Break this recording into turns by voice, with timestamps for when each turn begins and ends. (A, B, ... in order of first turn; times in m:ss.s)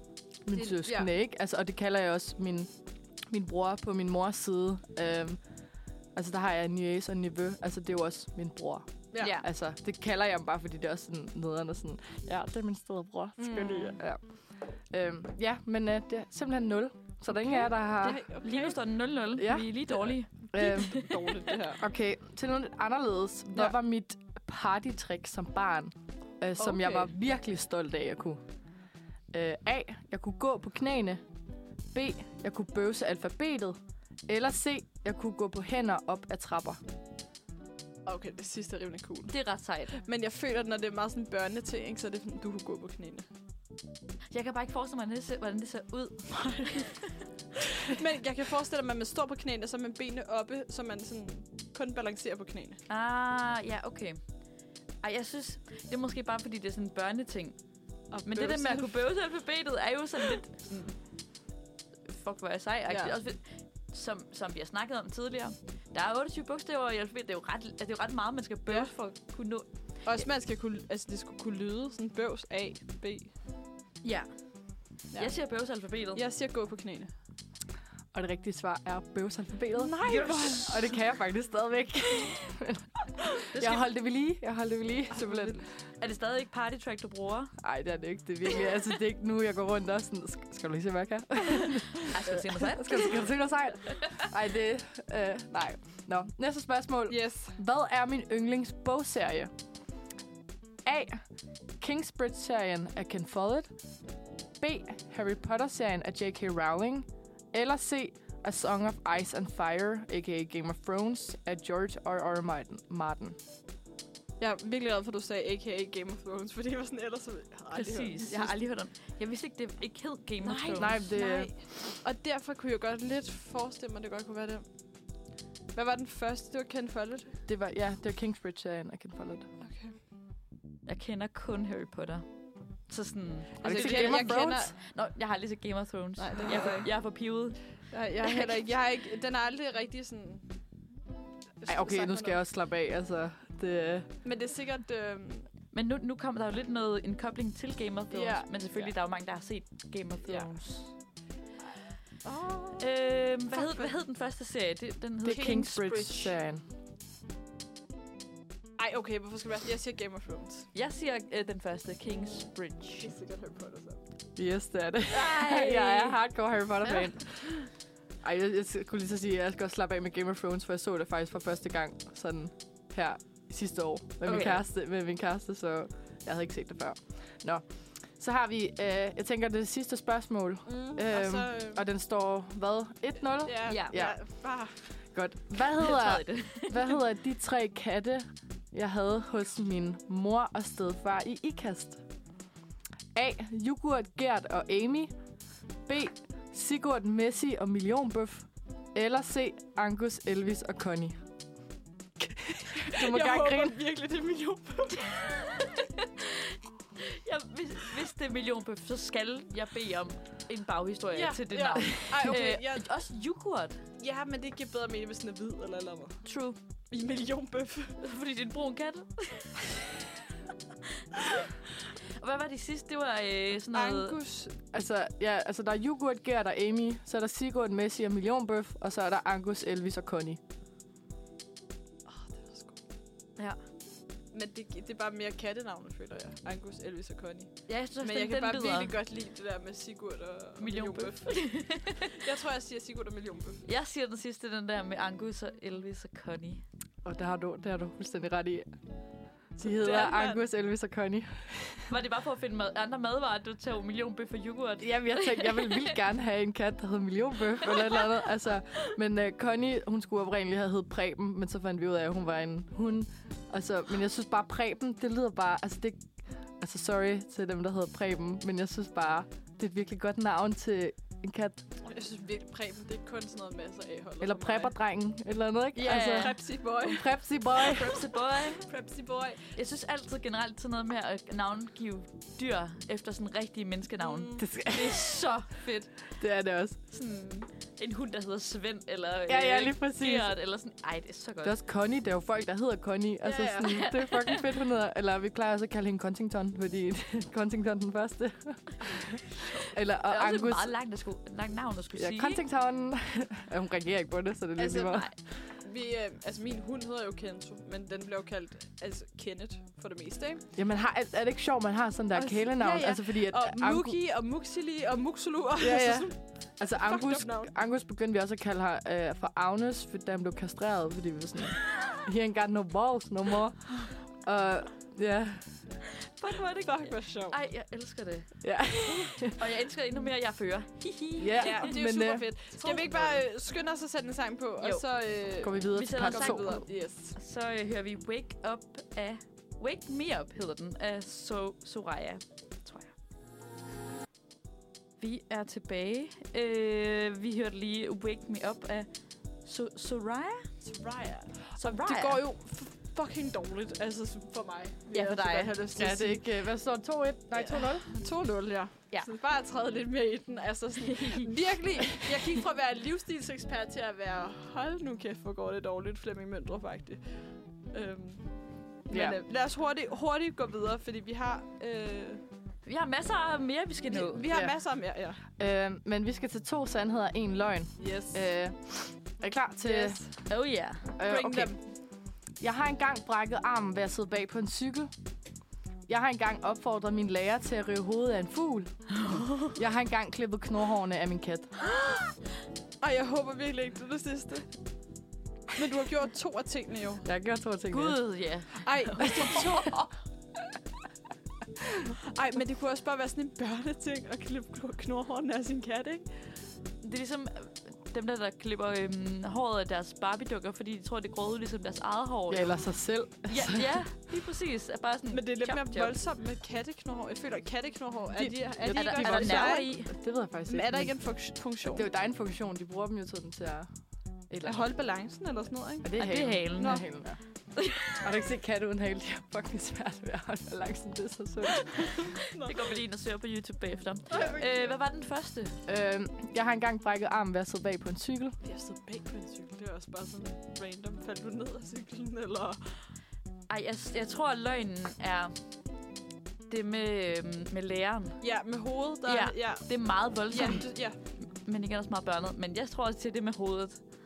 0:00.4-0:02.7 A
0:00.5-0:01.1 B
0:03.3-0:05.4 A
0:06.1-0:18.2 A
0:09.2-0:09.4 C
0:13.4-0:14.0 B
0:18.0-0:18.8 B
0:18.4-0:21.3 C
0:19.4-0:19.8 A
0:20.5-0:21.0 A
0:20.6-0:21.8 B
0:21.8-0:28.4 A
0:26.6-0:27.1 B
0:29.3-0:31.2 A
0:31.9-0:36.8 A
0:38.0-0:39.3 B
0:39.3-0:40.0 C
0:40.0-0:43.3 B
0:44.3-0:46.9 C
0:47.9-0:52.8 B
0:52.9-0:54.2 C
0:55.0-0:57.6 C
0:58.1-0:59.0 B
0:58.2-1:01.0 C
1:02.1-1:09.6 C
1:02.9-1:03.2 B
1:10.0-1:13.3 B
1:14.0-1:14.3 C
1:15.1-1:16.2 C
1:16.1-1:17.1 B
1:18.1-1:22.8 A
1:19.7-1:20.9 B
1:20.1-1:20.6 C
1:23.5-1:23.8 C
1:23.5-1:25.6 A
1:25.2-1:25.6 B
1:26.0-1:27.5 C
1:27.6-1:39.5 A
1:32.1-1:33.2 C
1:37.1-1:37.6 B
1:40.8-1:41.2 A
1:41.8-1:43.7 A
1:44.6-1:53.4 A
1:54.4-1:58.6 B
1:57.7-2:01.0 C
2:00.4-2:04.6 B
2:00.8-2:01.5 A
2:05.7-2:07.4 B
2:07.4-2:09.5 A
2:09.6-2:10.0 B
2:10.8-2:17.6 C
2:13.6-2:14.7 B
2:13.6-2:14.7 A
2:16.2-2:16.9 B
2:17.9-2:20.5 B
2:21.6-2:22.4 B
2:21.7-2:24.1 A
2:24.2-2:25.5 B
2:25.7-2:30.9 C
2:28.1-2:28.9 B
2:30.2-2:30.5 B
2:32.2-2:32.9 B
2:32.8-2:36.2 C
2:33.5-2:33.9 B
2:35.2-2:36.6 A
2:35.3-2:36.2 B
2:38.8-2:40.7 B
2:40.7-2:43.1 C
2:42.2-2:44.0 B
2:44.4-2:47.5 A
2:45.1-2:46.1 B
2:48.2-3:04.2 A
2:54.2-2:54.6 C
3:00.6-3:01.8 B
3:03.4-3:04.8 B
3:03.7-3:04.0 C
3:05.1-3:12.0 A
3:05.8-3:06.8 C
3:13.1-3:15.1 A
3:15.9-3:21.2 A
3:22.2-3:23.8 A
3:22.8-3:25.1 B
3:25.2-3:33.8 C
3:31.1-3:32.9 B
3:34.0-3:36.3 B
3:36.2-3:36.6 C
3:36.9-3:38.0 B
3:38.0-3:39.6 C
3:42.2-3:44.2 C
3:43.7-3:44.6 B
3:44.7-3:50.4 A
3:52.0-3:52.8 B
3:54.3-4:03.6 B
3:57.7-3:58.9 C
4:00.6-4:02.1 C
4:03.6-4:06.6 C
4:07.0-4:08.7 A
4:09.6-4:10.4 B
4:09.6-4:11.8 A
4:11.9-4:16.0 C
4:14.8-4:26.1 A
4:17.7-4:18.0 C
4:26.6-4:31.6 A
4:31.8-4:34.7 B
4:34.2-4:37.9 A
4:35.8-4:36.3 C
4:35.8-4:38.0 B
4:37.6-4:38.7 C
4:38.6-4:39.4 B
4:39.5-4:45.9 C
4:44.0-4:44.5 B
4:44.4-4:45.0 A
4:46.2-4:46.8 A
4:46.9-4:51.5 C
4:49.3-4:50.3 A
4:51.4-5:00.7 A
4:53.3-4:53.6 B
4:53.4-4:54.4 C
4:59.4-5:02.4 C
5:01.9-5:05.1 A
5:04.6-5:10.4 B
5:10.5-5:14.0 A
5:12.1-5:17.5 B
5:15.6-5:25.4 A
5:26.2-5:31.7 C
5:26.6-5:27.4 B
5:28.4-5:29.4 A
5:31.2-5:32.2 A
5:31.4-5:37.2 B
5:32.6-5:33.2 C
5:35.4-5:36.6 A
5:35.7-5:42.9 C
5:45.0-5:48.9 C
5:49.4-5:50.5 C
5:50.6-5:56.2 B
5:51.6-5:52.2 C
5:54.9-5:55.5 C
5:55.7-5:57.8 A
5:57.4-6:12.2 B
6:08.9-6:09.2 A
6:12.6-6:14.2 C
6:13.9-6:15.2 B
6:14.3-6:14.6 A
6:15.4-6:20.0 A
6:17.8-6:18.2 B
6:19.6-6:20.1 B
6:20.3-6:20.8 C
6:21.0-6:21.6 A
6:21.0-6:21.6 B
6:22.4-6:24.9 A
6:25.9-6:31.5 A
6:29.0-6:29.5 C
6:32.8-6:34.5 B
6:35.5-6:37.0 B
6:37.0-6:38.2 A
6:37.7-6:39.4 C
6:38.6-6:39.9 B
6:42.0-6:46.1 B
6:46.8-6:52.7 C
6:52.3-6:53.8 A
6:53.2-6:55.9 C
6:55.1-6:59.7 B
6:58.1-7:00.9 A
6:58.7-6:59.9 C
7:00.5-7:01.9 B
7:01.6-7:03.7 A
7:04.3-7:04.7 A
7:04.4-7:06.0 B
7:05.8-7:07.2 A
7:06.0-7:06.8 C
7:06.6-7:06.8 B
7:07.6-7:07.9 C
7:07.8-7:12.0 A
7:12.2-7:12.7 B
7:12.4-7:15.6 C
7:14.1-7:14.7 B
7:15.7-7:18.4 A
7:18.4-7:22.8 B
7:23.5-7:25.3 C
7:26.5-7:28.2 C
7:28.2-7:31.0 B
7:29.0-7:33.8 C